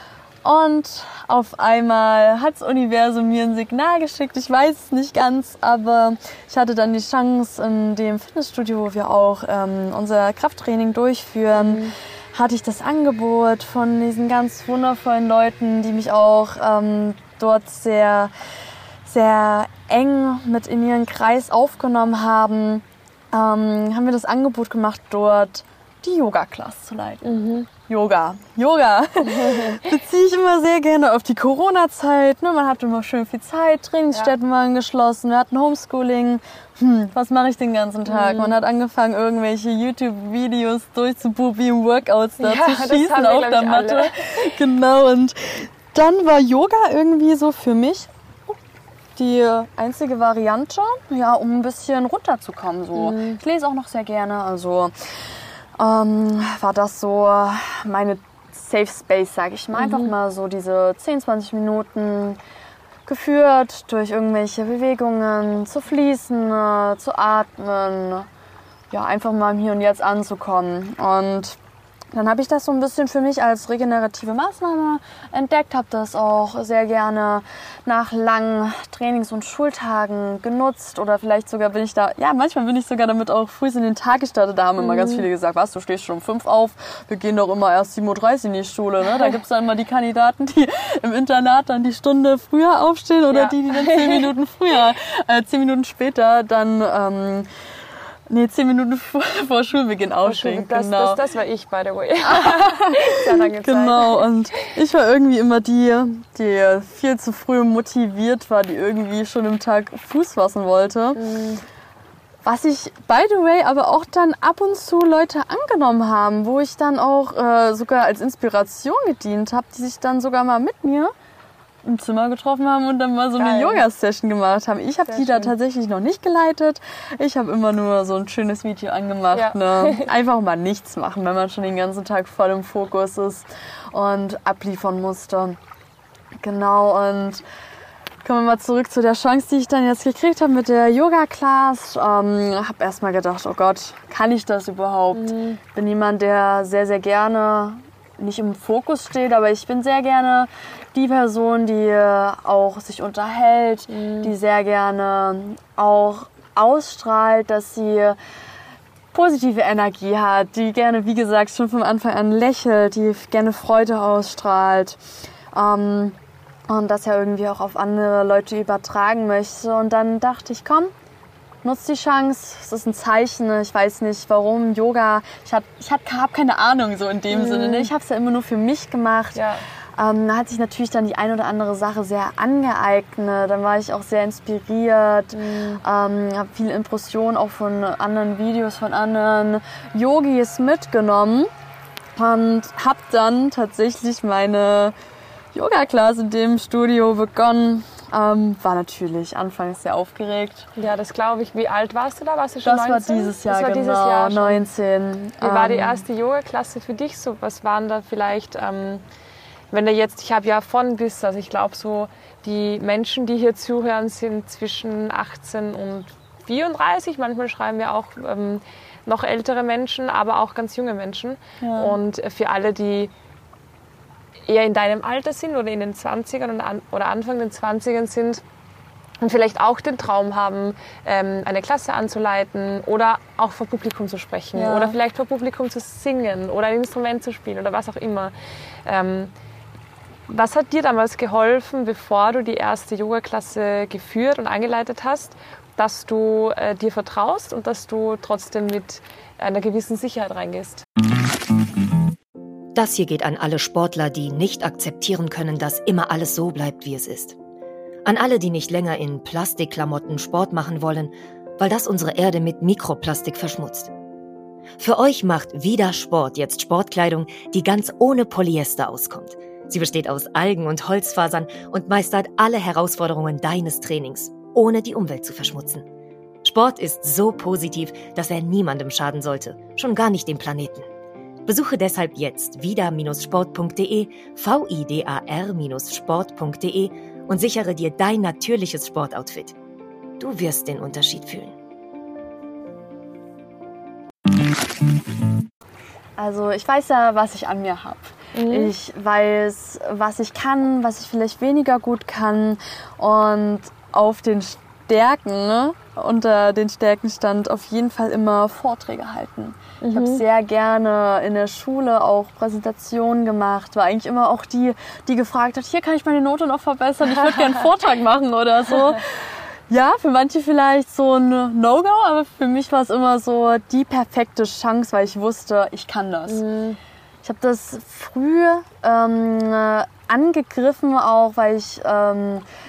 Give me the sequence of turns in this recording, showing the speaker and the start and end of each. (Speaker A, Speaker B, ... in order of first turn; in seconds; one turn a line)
Speaker A: 0.4-18.3
Speaker B: 11.6-11.9
Speaker A: 19.1-48.6
Speaker B: 27.2-27.7
Speaker B: 29.2-29.9
Speaker B: 38.1-38.6
Speaker B: 42.4-44.5
Speaker A: 49.2-62.4
Speaker B: 53.0-53.4
Speaker B: 59.7-60.1
Speaker A: 63.1-68.3
Speaker A: 68.9-71.6
Speaker A: 72.1-97.5
Speaker B: 84.8-85.2
Speaker B: 93.3-94.3
Speaker A: 98.3-101.2
Speaker B: 100.2-104.2
Speaker A: 102.2-111.2
Speaker B: 111.2-111.6
Speaker A: 112.4-121.1
Speaker A: 121.8-135.6
Speaker B: 123.4-123.8
Speaker B: 125.1-125.5
Speaker B: 129.3-130.1
Speaker A: 136.4-137.4
Speaker A: 138.2-158.2
Speaker B: 145.1-145.6
Speaker B: 153.9-154.3
Speaker A: 159.1-165.0
Speaker A: 165.5-166.2
Speaker A: 166.7-170.9
Speaker A: 171.6-179.4
Speaker B: 177.3-177.9
Speaker B: 179.3-179.6
Speaker A: 180.0-191.5
Speaker B: 185.3-185.8
Speaker A: 192.2-194.9
Speaker A: 195.5-200.7
Speaker B: 200.8-204.6
Speaker A: 202.6-206.0
Speaker B: 205.4-209.0
Speaker B: 209.7-223.1
Speaker A: 221.6-222.0
Speaker B: 224.5-228.4
Speaker B: 229.2-238.3
Speaker A: 234.5-235.0
Speaker B: 238.8-239.3
Speaker B: 240.3-250.9
Speaker C: 252.8-257.4
Speaker C: 258.1-263.9
Speaker C: 264.8-275.8
Speaker C: 276.4-280.9
Speaker C: 281.5-289.6
Speaker C: 290.2-291.6
Speaker A: 296.2-326.4
Speaker B: 298.3-298.7
Speaker B: 309.8-310.2
Speaker B: 317.0-317.6
Speaker B: 326.3-326.8
Speaker A: 327.2-332.4